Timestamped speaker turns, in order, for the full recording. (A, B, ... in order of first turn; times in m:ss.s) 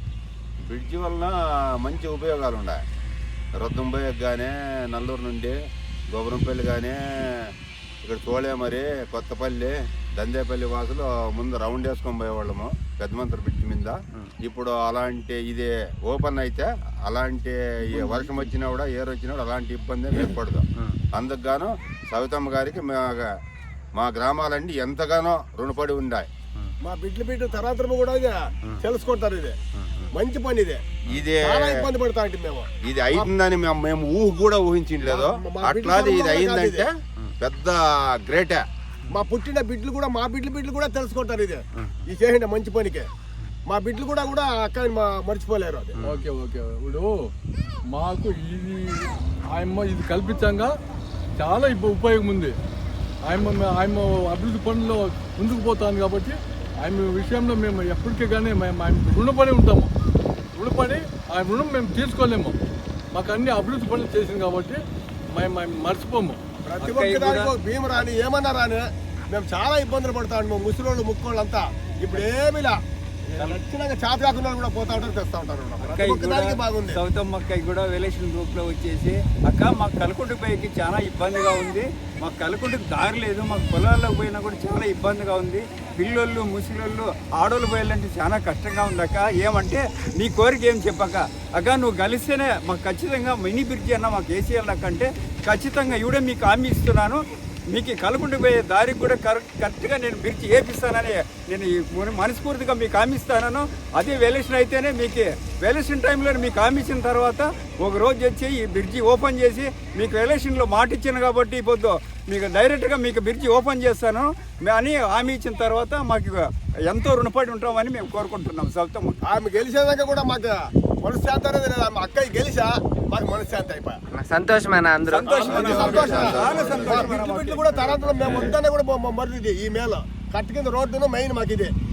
0:00.7-0:02.8 A
0:03.6-0:05.6 A
0:06.1-0:07.0 A
0:08.0-0:23.3 A
0:24.0-0:26.3 A
0:26.8-0:29.6 B
0:29.8-0:30.1 C
0:30.1-0:30.8 B
0:31.1-0:31.7 A
0:31.4-0:33.3 B
0:32.8-0:38.6 A
0:35.0-0:36.9 B
0:39.1-0:43.1 B
0:43.7-0:46.0 B
0:46.0-0:47.1 D
0:47.9-0:50.7 D
0:51.4-0:52.5 D
0:53.2-0:59.9 D
1:00.5-1:02.6 D
1:03.1-1:04.8 D
1:05.3-1:06.4 D
1:06.7-1:07.5 E
1:06.8-1:12.8 B
1:13.4-1:17.0 B
1:15.8-1:59.2 E
1:59.2-2:04.0 B
2:04.1-2:06.3 C
2:05.1-2:08.5 E
2:05.3-2:11.7 B
2:05.4-2:07.0 A